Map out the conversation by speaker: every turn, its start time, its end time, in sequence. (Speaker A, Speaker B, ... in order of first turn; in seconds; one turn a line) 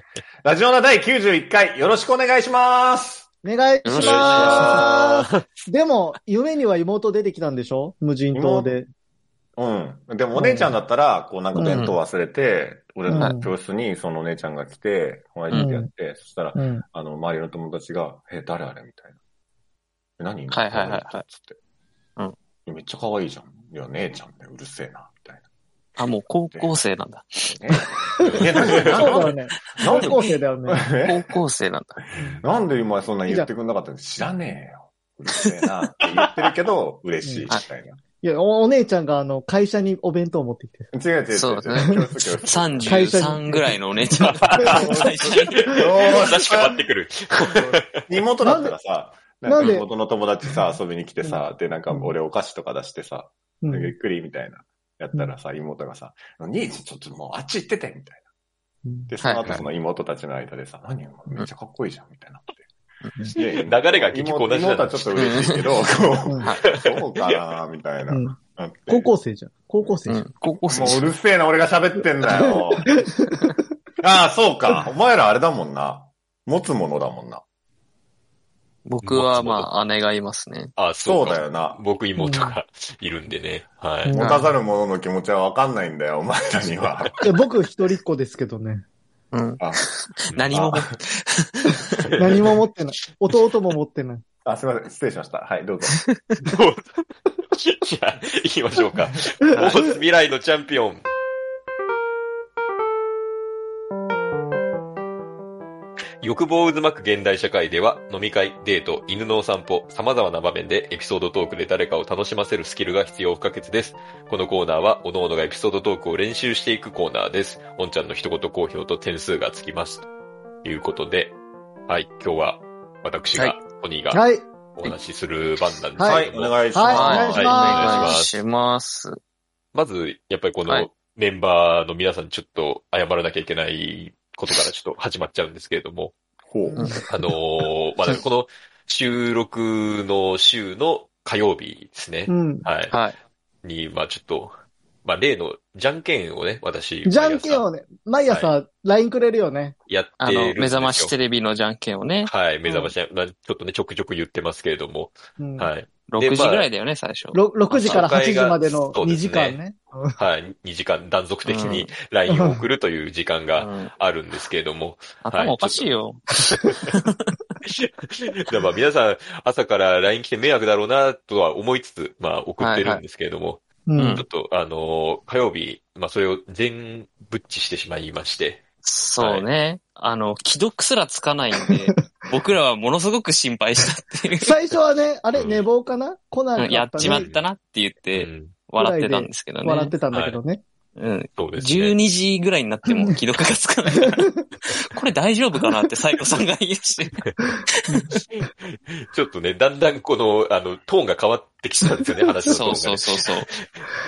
Speaker A: 0.4-3.3
Speaker B: 3.4-8.9
Speaker C: 3.8-4.9
Speaker D: 4.0-5.4
Speaker A: 8.3-8.8
Speaker A: 9.6-19.2
Speaker B: 10.3-10.8
Speaker B: 11.5-11.9
Speaker C: 11.7-12.0
Speaker B: 13.1-13.5
Speaker C: 13.1-13.4
Speaker B: 15.5-15.9
Speaker B: 16.6-16.8
Speaker A: 20.2-21.6
Speaker C: 20.5-21.2
Speaker A: 22.7-25.4
Speaker C: 26.0-28.0
Speaker A: 27.5-31.3
Speaker D: 28.2-29.3
Speaker B: 28.2-30.9
Speaker C: 29.8-30.4
Speaker C: 31.1-32.0
Speaker D: 32.2-32.4
Speaker A: 32.4-38.0
Speaker B: 37.2-37.5
Speaker B: 38.2-40.9
Speaker A: 40.9-43.4
Speaker C: 41.3-46.3
Speaker B: 42.9-43.8
Speaker D: 44.4-44.8
Speaker B: 44.6-45.9
Speaker A: 44.6-46.9
Speaker D: 45.5-48.0
Speaker A: 47.5-58.2
Speaker B: 48.4-48.7
Speaker B: 49.5-49.8
Speaker C: 49.6-49.8
Speaker B: 51.2-52.1
Speaker B: 53.6-53.9
Speaker B: 58.9-59.1
Speaker A: 59.1-62.7
Speaker C: 59.2-59.6
Speaker C: 63.0-63.3
Speaker A: 63.3-69.1
Speaker D: 63.5-65.5
Speaker C: 65.2-65.6
Speaker C: 66.4-66.8
Speaker D: 66.7-67.3
Speaker B: 68.1-68.4
Speaker B: 68.9-70.2
Speaker C: 70.1-71.1
Speaker A: 70.7-72.9
Speaker B: 72.4-73.5
Speaker A: 74.0-77.4
Speaker C: 78.9-80.7
Speaker D: 79.0-79.7
Speaker D: 80.8-84.2
Speaker A: 81.0-81.8
Speaker B: 82.2-82.6
Speaker B: 84.0-84.5
Speaker A: 84.1-87.3
Speaker B: 87.2-88.8
Speaker C: 89.3-91.9
Speaker A: 90.5-90.8
Speaker D: 92.0-92.5
Speaker B: 92.2-94.2
Speaker A: 94.5-96.0
Speaker C: 96.0-96.4
Speaker D: 96.5-101.0
Speaker D: 106.2-120.1
Speaker D: 120.6-121.4
Speaker D: 121.9-124.2
Speaker C: 123.3-123.6
Speaker B: 124.1-124.5
Speaker D: 124.8-128.4
Speaker B: 126.0-128.2
Speaker A: 126.0-127.7
Speaker C: 126.9-129.2
Speaker D: 129.7-136.2
Speaker A: 136.4-137.0
Speaker B: 136.7-137.0
Speaker C: 136.8-137.1
Speaker D: 137.1-142.9
Speaker B: 142.3-142.7
Speaker D: 143.6-144.5
Speaker D: 145.1-147.7
Speaker B: 147.1-149.8
Speaker D: 149.9-151.1
Speaker C: 150.2-152.3
Speaker D: 152.2-156.7
Speaker B: 152.7-152.9
Speaker B: 155.4-155.7
Speaker C: 156.1-158.1
Speaker B: 157.3-160.2
Speaker D: 157.8-159.6
Speaker D: 160.2-165.9
Speaker C: 161.5-161.9
Speaker B: 162.3-162.6
Speaker C: 163.6-163.9
Speaker C: 165.2-167.4
Speaker D: 167.6-173.6
Speaker C: 172.6-173.0
Speaker B: 173.9-174.2
Speaker C: 174.0-174.2
Speaker D: 174.2-178.6
Speaker C: 178.8-184.6
Speaker D: 179.2-179.5
Speaker B: 184.4-187.3
Speaker D: 185.3-185.7
Speaker C: 186.6-189.9
Speaker D: 187.0-187.4
Speaker D: 188.1-188.6
Speaker B: 188.8-190.6
Speaker D: 190.1-190.4
Speaker C: 191.0-198.2
Speaker D: 191.4-192.0
Speaker B: 192.9-193.2
Speaker B: 194.0-194.3
Speaker D: 198.3-203.8
Speaker C: 202.5-203.5
Speaker B: 202.5-202.8